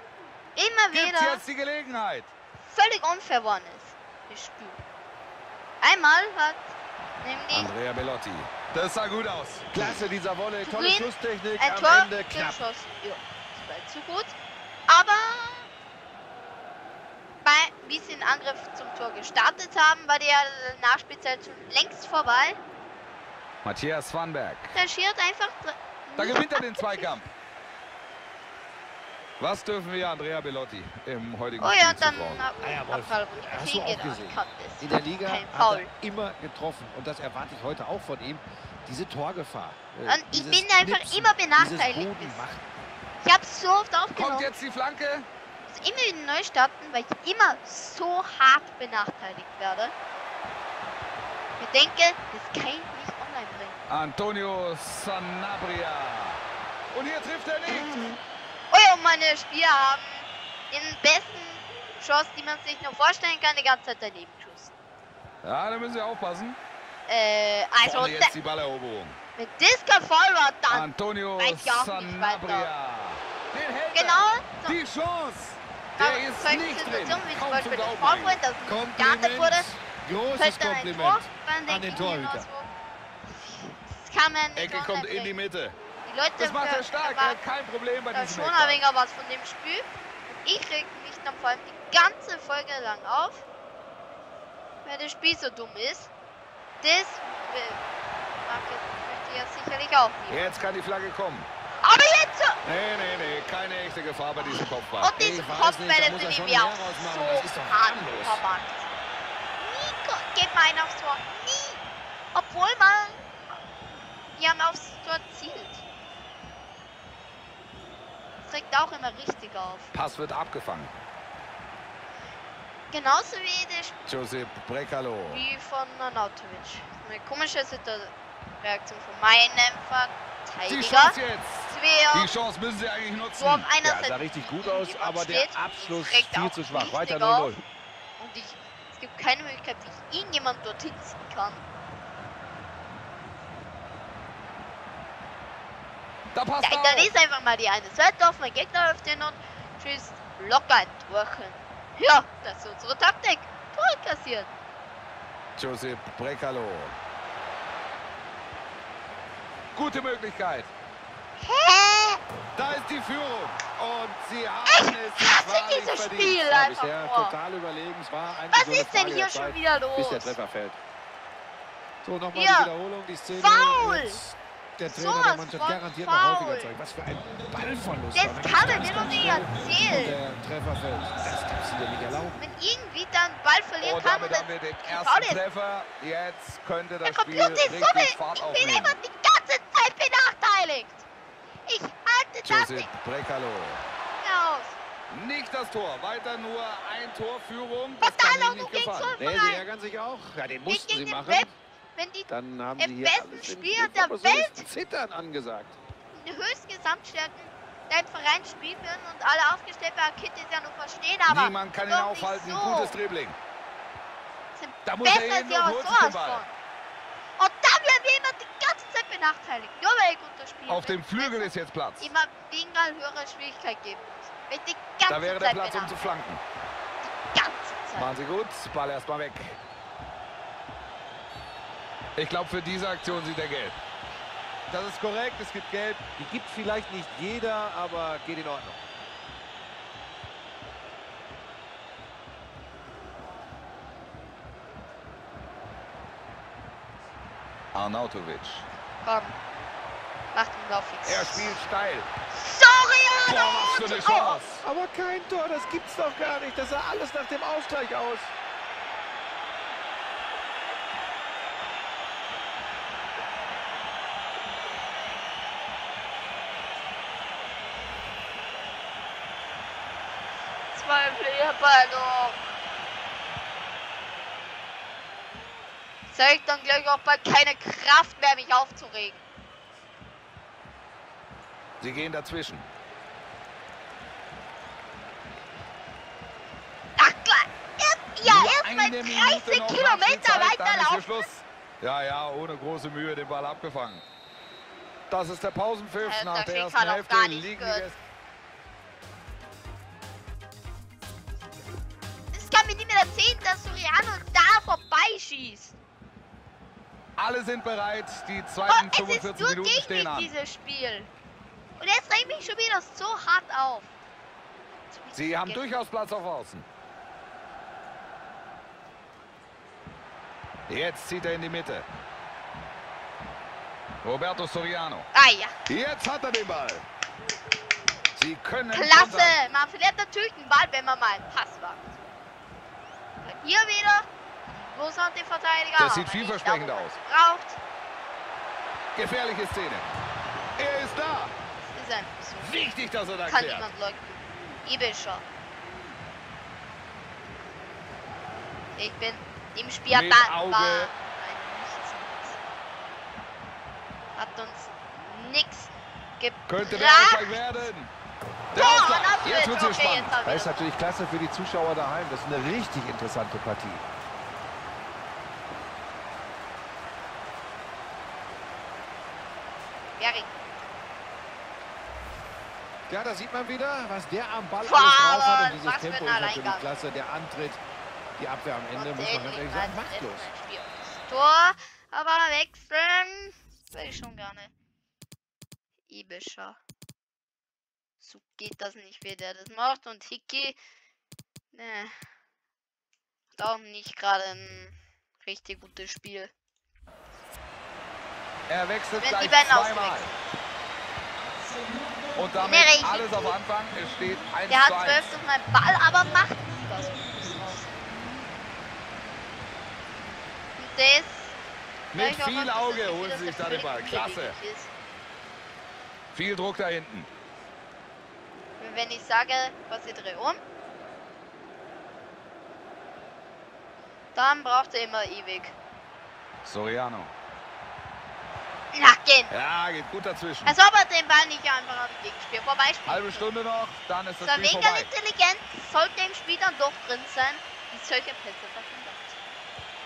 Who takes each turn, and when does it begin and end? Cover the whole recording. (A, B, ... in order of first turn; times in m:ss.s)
0:00.6-0:01.4 A
0:00.9-0:02.3 B
0:02.6-0:04.8 A
0:05.8-0:07.7 A
0:07.5-0:10.1 B
0:09.7-0:12.6 C
0:10.6-0:14.3 A
0:14.9-0:15.7 A
0:17.4-0:22.6 A
0:23.6-0:24.8 B
0:24.7-0:27.1 A
0:26.2-0:27.3 B
0:29.4-0:32.5 B
0:31.6-0:35.9 A
0:32.6-0:42.7 C
0:40.0-0:42.4 A
0:43.2-0:44.6 A
0:44.1-0:45.3 B
0:45.7-0:49.9 A
0:51.6-0:53.8 A
0:53.9-0:58.1 B
0:58.7-1:04.7 A
1:05.4-1:06.6 B
1:07.1-1:08.3 A
1:07.8-1:09.2 B
1:09.4-1:12.7 A
1:10.7-1:18.4 B
1:13.9-1:14.8 A
1:16.0-1:19.7 A
1:18.6-1:22.5 C
1:20.3-1:22.7 A
1:23.3-1:25.4 A
1:24.6-1:25.8 B
1:26.0-1:27.4 A
1:26.4-1:28.9 B
1:28.1-1:29.9 A
1:30.4-1:33.4 A
1:34.8-1:36.1 A
1:36.8-1:37.9 A
1:38.4-1:40.5 A
1:40.3-1:41.5 B
1:41.8-1:42.6 A
1:42.6-1:45.2 B
1:44.4-1:48.9 A
1:45.1-1:48.4 C
1:49.6-1:51.8 A
1:52.3-1:53.3 A
1:54.3-1:55.8 A
1:58.4-1:59.9 A
1:59.9-2:00.9 B
2:02.9-2:04.0 A
2:04.1-2:05.4 B
2:05.3-2:12.3 A
2:10.7-2:13.8 B
2:13.3-2:17.6 A
2:13.8-2:17.6 C
2:18.2-2:21.6 A
2:26.3-2:27.1 B
2:26.6-2:34.5 A
2:35.6-2:37.0 B
2:39.7-2:40.7 B
2:41.4-2:42.2 A
2:42.5-2:46.4 B
2:44.7-2:47.4 A
2:46.5-2:50.8 C
2:48.5-2:50.4 A
2:52.0-3:02.4 C
2:52.3-2:52.7 A
2:53.3-2:54.2 A
2:54.8-2:56.8 A
2:58.1-3:00.2 A
3:02.4-3:05.4 A
3:03.8-3:09.0 B
3:07.0-3:11.1 A
3:11.7-3:12.9 A
3:12.4-3:13.8 B
3:14.2-3:14.8 A
3:15.1-3:19.2 B
3:18.0-3:19.7 A
3:19.2-3:21.5 C
3:20.7-3:24.7 A
3:22.3-3:25.8 C
3:26.1-3:33.0 A
3:31.3-3:33.4 B
3:34.5-3:36.5 A
3:34.8-3:36.4 B
3:37.4-3:46.0 A
3:40.7-3:42.1 B
3:45.1-3:46.4 B
3:47.0-3:48.2 A
3:48.0-3:49.6 B
3:52.2-3:53.8 B
3:54.7-3:56.0 B
3:56.2-3:58.8 C
4:07.7-4:08.7 B
4:09.0-4:09.4 A
4:10.3-4:11.6 A
4:11.0-4:12.1 B
4:12.3-4:14.4 A
4:13.2-4:14.6 B
4:14.6-4:18.3 C
4:30.7-4:32.4 A
4:36.1-4:39.2 A
4:41.8-4:42.7 B
4:47.0-4:51.3 A
4:48.2-4:54.0 B
4:55.1-4:58.0 B
4:56.0-4:57.9 A
5:02.3-5:05.8 A
5:07.2-5:10.3 B
5:08.7-5:11.1 A
5:11.8-5:13.9 A
5:14.9-5:15.6 A
5:15.1-5:16.6 B
5:20.7-5:21.9 B
5:24.0-5:25.1 B
5:25.1-5:25.5 A
5:25.7-5:26.8 B
5:28.1-5:29.4 B
5:28.7-5:32.0 A
5:33.2-5:37.6 A
5:35.8-5:37.0 B
5:39.0-5:39.9 B
5:40.6-5:41.4 B
5:41.6-5:42.7 A
5:42.4-5:43.7 B
5:43.2-5:45.2 A
5:48.8-5:52.4 A
5:49.9-5:50.9 B
5:54.2-5:57.7 A
5:56.5-5:57.9 B
5:58.5-6:00.2 B
5:58.5-6:00.7 A
6:00.2-6:03.8 C
6:10.0-6:10.4 A
6:12.9-6:17.6 C
6:14.6-6:16.7 A
6:18.2-6:20.3 C
6:18.8-6:24.5 A
6:25.9-6:26.6 A
6:28.0-6:30.6 A
6:31.5-6:31.9 A
6:33.4-6:36.3 A
6:38.5-6:40.1 B
6:39.0-6:40.4 A
6:42.1-6:45.2 B
6:42.4-6:43.4 A
6:44.5-6:47.8 A
6:50.6-6:51.4 A
6:51.9-6:54.4 B
6:51.9-6:54.7 A
6:56.1-6:57.1 B
6:58.6-7:00.4 A
7:04.1-7:05.6 A
7:06.4-7:07.1 B
7:08.7-7:09.3 A
7:09.3-7:10.6 B
7:10.4-7:13.3 A
7:12.9-7:14.9 B
7:14.2-7:19.2 A